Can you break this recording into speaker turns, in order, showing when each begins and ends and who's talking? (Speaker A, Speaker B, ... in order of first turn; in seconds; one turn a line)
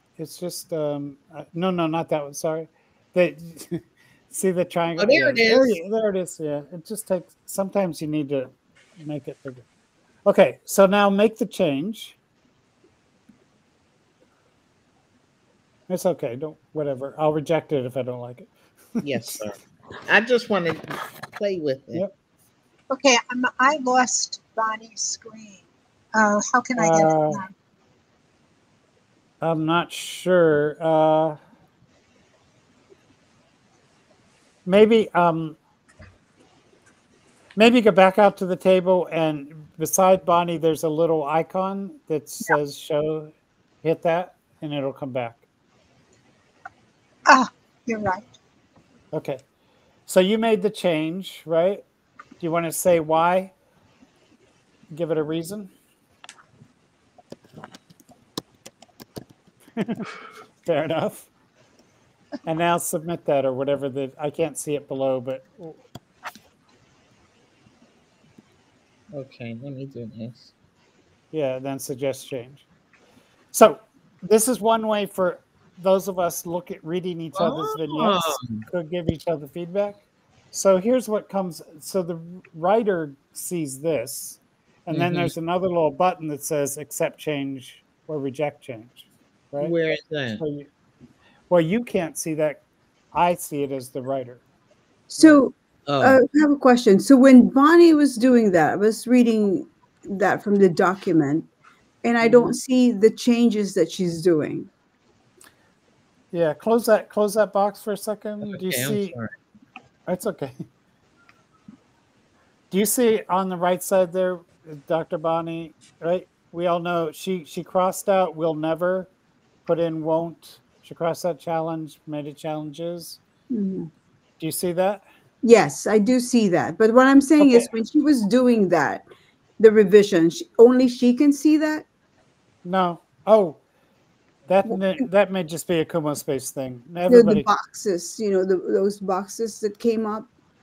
Speaker A: 0.2-9.6
Speaker B: 5.0-5.8
Speaker A: 10.3-12.2
Speaker A: 15.9-18.5
Speaker A: 19.0-19.4
Speaker B: 19.0-22.1
Speaker C: 22.9-25.6
Speaker C: 26.1-27.5
Speaker A: 26.8-27.4
Speaker A: 29.4-31.4
Speaker A: 34.7-35.6
Speaker A: 37.6-45.4
Speaker C: 47.3-48.3
Speaker A: 49.1-49.4
Speaker A: 50.1-51.8
Speaker A: 52.4-53.5
Speaker A: 54.9-55.7
Speaker A: 59.8-60.1
Speaker A: 60.6-61.3
Speaker A: 62.5-65.8
Speaker B: 69.1-70.5
Speaker A: 71.3-72.7
Speaker A: 73.5-80.0
Speaker B: 77.3-78.7
Speaker A: 80.5-89.7
Speaker B: 84.9-85.3
Speaker B: 89.6-90.4
Speaker A: 90.4-90.7
Speaker A: 91.5-92.6
Speaker A: 93.1-94.4
Speaker D: 95.1-101.5
Speaker B: 95.9-96.2
Speaker D: 102.0-104.7
Speaker A: 106.3-109.2
Speaker B: 108.4-109.3
Speaker A: 110.1-110.5
Speaker A: 112.7-119.1
Speaker A: 119.7-123.2
Speaker D: 123.5-123.9
Speaker A: 124.4-125.0
Speaker D: 125.4-129.1
Speaker A: 127.4-127.7
Speaker D: 129.6-131.9
Speaker A: 132.7-133.6
Speaker A: 134.5-137.5
Speaker D: 137.1-140.3